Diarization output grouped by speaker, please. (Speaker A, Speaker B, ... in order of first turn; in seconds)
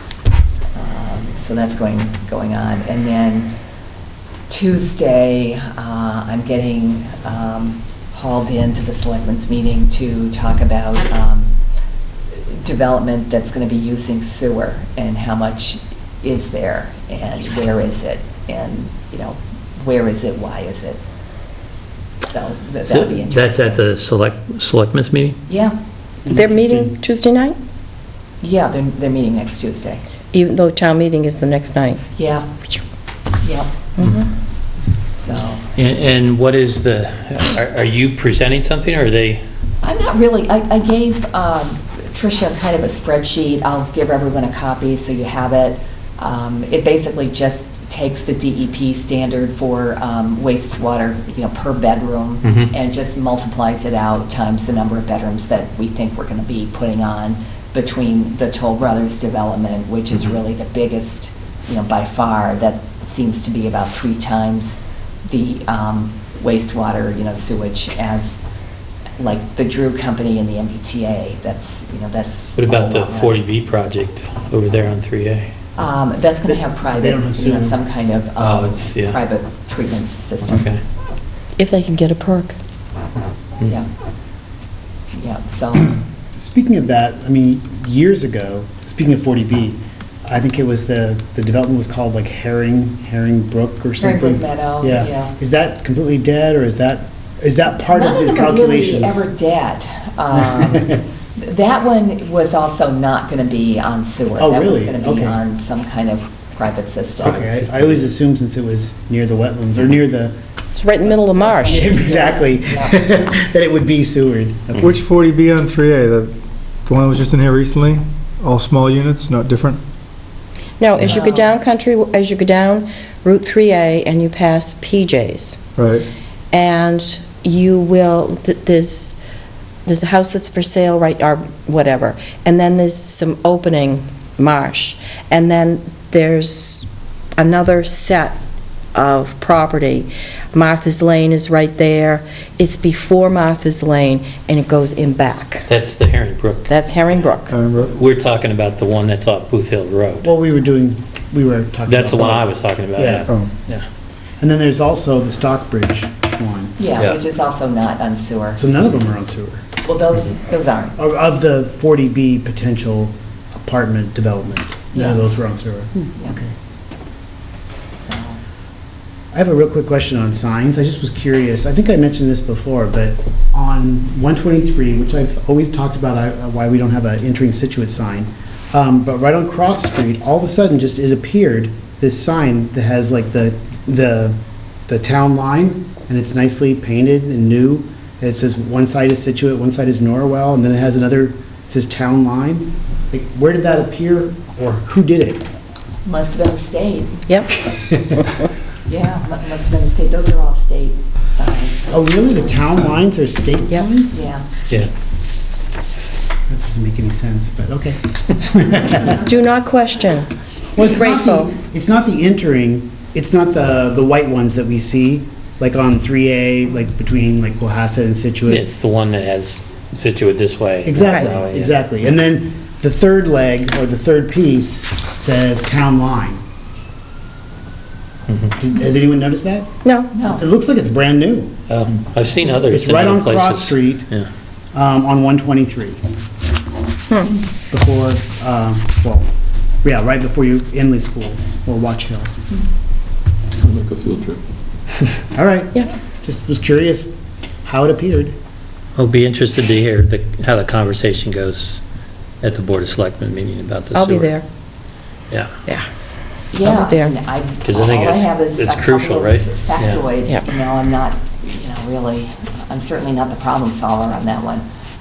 Speaker A: 0.8-3.5, 4.5-11.5, 12.3-21.0, 22.2-23.8, 25.5-25.8, 28.4-30.0, 32.1-32.5, 33.4-33.7, 35.1-35.6, 39.8-68.4, 69.2-73.5, 75.8-80.7, 85.1-86.0, 94.0-95.3, 97.9-107.6, 111.5-113.0, 121.1-121.5, 156.8-158.6, 159.8-161.0, 164.9-165.2, 167.9-168.4, 196.1-197.3, 198.9-202.6, 204.1-204.4, 230.1-230.4, 256.5-264.6
Speaker B: 22.8-25.4, 35.8-39.4, 52.4-52.7, 72.6-75.5, 78.4-79.2, 80.5-80.8, 107.2-108.0, 145.7-147.2, 147.8-150.3, 151.9-153.8, 218.5-221.8, 228.3-228.5, 231.7-234.3, 243.6-244.3, 249.0-251.8, 252.4-254.4, 257.6-260.1
Speaker C: 26.2-27.0, 76.5-77.8, 86.4-99.3, 100.4-101.0, 104.4-105.4, 107.2-110.3, 111.3-115.0, 150.2-153.8, 154.4-156.8, 158.6-159.7, 161.0-166.5, 169.3-195.5, 197.8-198.2, 201.9-204.2, 206.5-209.2, 210.8-218.7, 220.8-226.4, 228.6-229.7, 230.2-231.5, 232.7-234.1, 234.7-236.0, 237.7-239.3, 239.8-242.3, 245.3-247.1, 247.6-248.4
Speaker D: 26.3-27.6, 30.3-32.0, 34.0-34.3, 81.6-82.6, 110.8-112.0, 120.8-125.6, 126.5-129.2, 129.9-136.9, 137.4-138.4, 138.9-145.7, 146.7-147.6, 197.3-197.6, 209.2-211.5, 229.8-230.1, 253.9-254.4, 256.6-257.1
Speaker E: 114.8-116.3, 116.9-119.8, 125.8-126.1, 147.5-147.9